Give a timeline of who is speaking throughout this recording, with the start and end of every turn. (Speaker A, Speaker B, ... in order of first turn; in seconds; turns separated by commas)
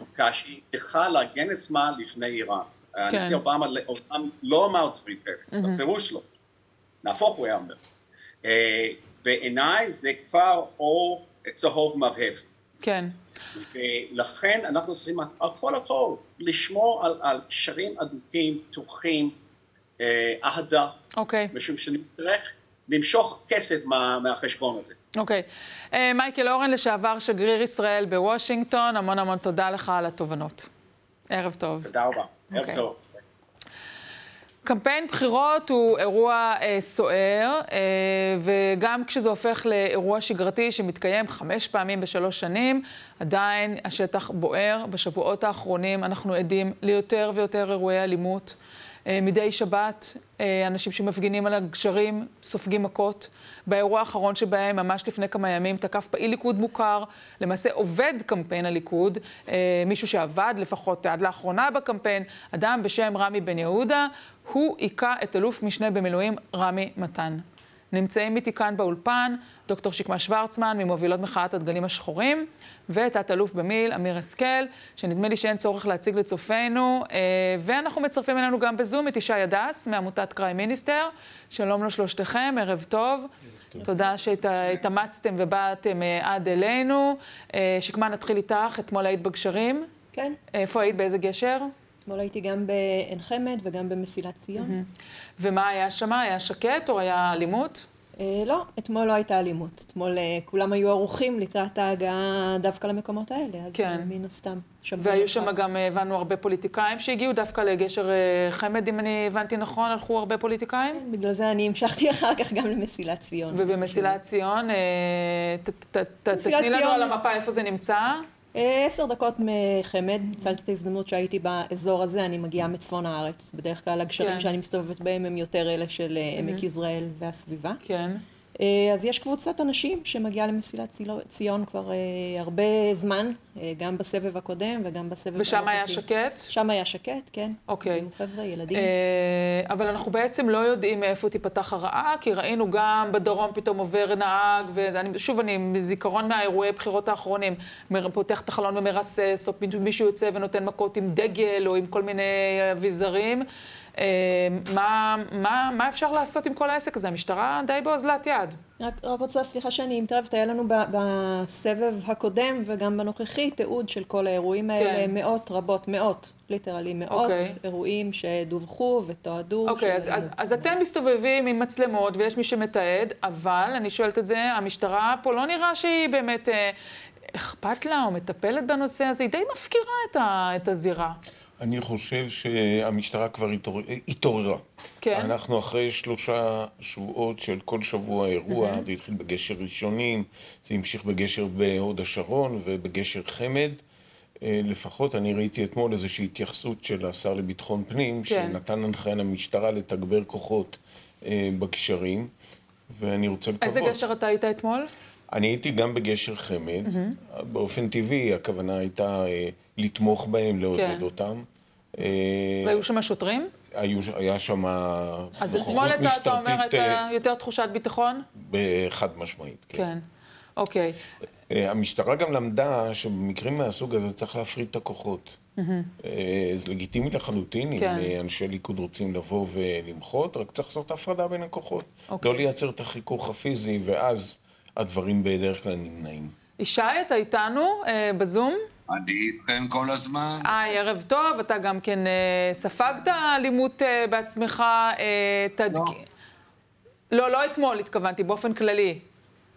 Speaker A: 0.1-6.2, Speaker B: 3.1-3.4, Speaker B: 5.5-5.8, Speaker A: 7.0-7.8, Speaker A: 8.4-12.5, Speaker B: 12.8-13.1, Speaker A: 13.6-19.3, Speaker A: 20.0-21.0, Speaker B: 21.2-21.5, Speaker A: 21.5-25.0, Speaker B: 25.2-30.7, Speaker B: 31.3-31.9, Speaker A: 31.8-33.2, Speaker B: 32.5-32.8, Speaker B: 34.7-48.6, Speaker B: 49.1-83.3, Speaker B: 83.8-89.9, Speaker B: 90.5-91.7, Speaker C: 92.1-94.8, Speaker B: 94.6-94.9, Speaker B: 95.4-97.8, Speaker C: 98.2-105.5, Speaker B: 103.8-104.1, Speaker B: 105.0-111.0, Speaker C: 110.9-114.2, Speaker B: 113.5-118.2, Speaker C: 116.3-117.1, Speaker C: 118.5-127.8, Speaker B: 124.2-124.5, Speaker B: 126.4-126.7, Speaker B: 127.8-128.2, Speaker C: 128.6-138.9, Speaker B: 135.4-136.5, Speaker B: 137.7-138.1, Speaker B: 138.7-153.4, Speaker B: 154.0-158.6, Speaker C: 158.8-170.8, Speaker B: 164.8-165.1, Speaker B: 167.1-167.6, Speaker B: 169.7-176.7, Speaker B: 177.3-181.2, Speaker D: 181.6-184.6, Speaker B: 185.0-185.3, Speaker D: 185.1-193.8, Speaker B: 188.5-188.8, Speaker D: 194.4-202.3, Speaker B: 198.3-198.6, Speaker D: 202.9-204.0, Speaker B: 203.6-204.9, Speaker D: 205.3-211.5, Speaker B: 206.8-207.2, Speaker B: 210.8-211.1, Speaker D: 212.0-212.8, Speaker B: 212.6-213.5, Speaker D: 213.7-217.0, Speaker B: 215.4-218.2, Speaker D: 218.4-219.8, Speaker B: 219.8-220.0, Speaker B: 220.6-220.9, Speaker D: 221.5-225.4, Speaker B: 225.6-225.9, Speaker D: 226.0-236.3, Speaker B: 227.8-228.1, Speaker B: 232.1-232.5, Speaker B: 236.6-238.6, Speaker E: 238.9-240.5, Speaker B: 240.4-246.0, Speaker E: 245.7-246.0, Speaker B: 247.1-249.0